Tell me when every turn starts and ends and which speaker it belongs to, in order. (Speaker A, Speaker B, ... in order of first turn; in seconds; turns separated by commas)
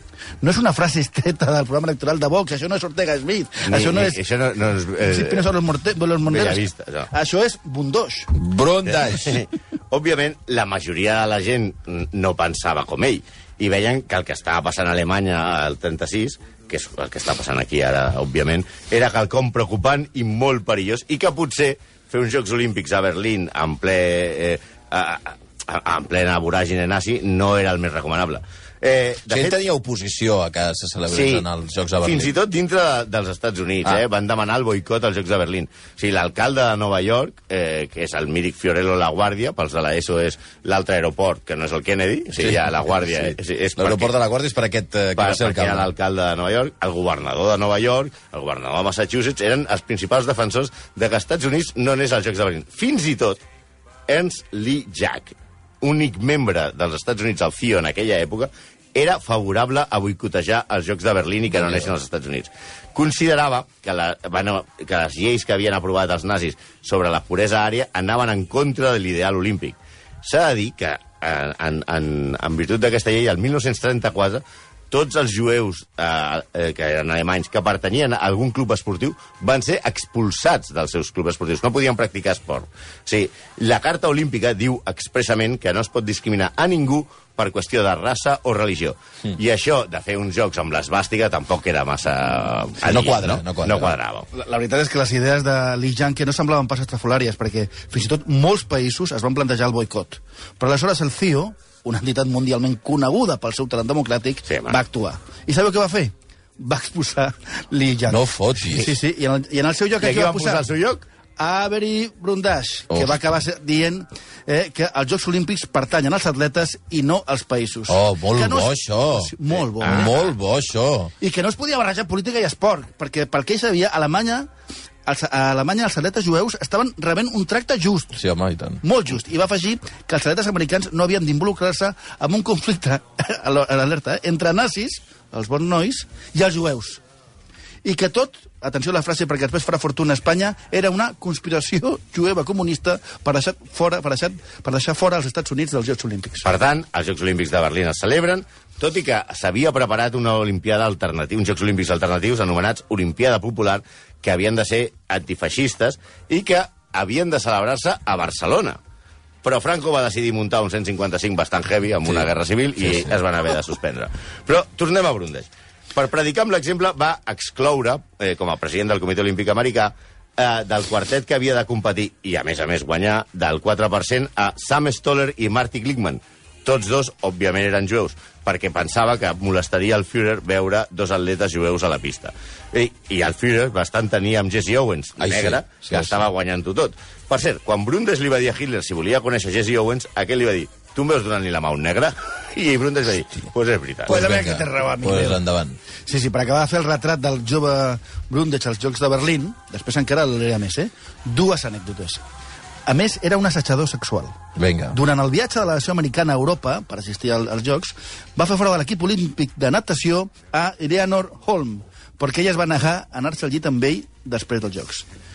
Speaker A: 0.4-4.2, Speaker B: 3.7-5.5, Speaker A: 5.1-8.3, Speaker B: 6.3-7.1, Speaker C: 8.3-9.4, Speaker B: 8.9-29.6, Speaker C: 29.3-32.3, Speaker B: 31.1-31.4, Speaker B: 32.0-44.1, Speaker C: 42.4-45.9, Speaker B: 45.2-53.4, Speaker B: 54.1-94.3, Speaker C: 92.8-94.0, Speaker A: 94.3-110.6, Speaker B: 104.5-104.8, Speaker C: 108.1-109.0, Speaker B: 110.0-111.1, Speaker A: 111.4-120.1, Speaker C: 112.9-113.2, Speaker C: 117.9-121.1, Speaker B: 119.8-120.2, Speaker A: 121.2-124.5, Speaker A: 125.1-128.2, Speaker C: 128.2-128.8, Speaker A: 128.8-137.0, Speaker A: 137.8-146.5, Speaker B: 146.4-158.8, Speaker B: 159.4-194.2, Speaker C: 162.8-163.2, Speaker C: 185.2-186.2, Speaker A: 194.1-195.4, Speaker C: 194.1-195.8, Speaker A: 196.1-202.2, Speaker A: 202.9-204.4, Speaker C: 204.6-205.0, Speaker A: 204.9-215.1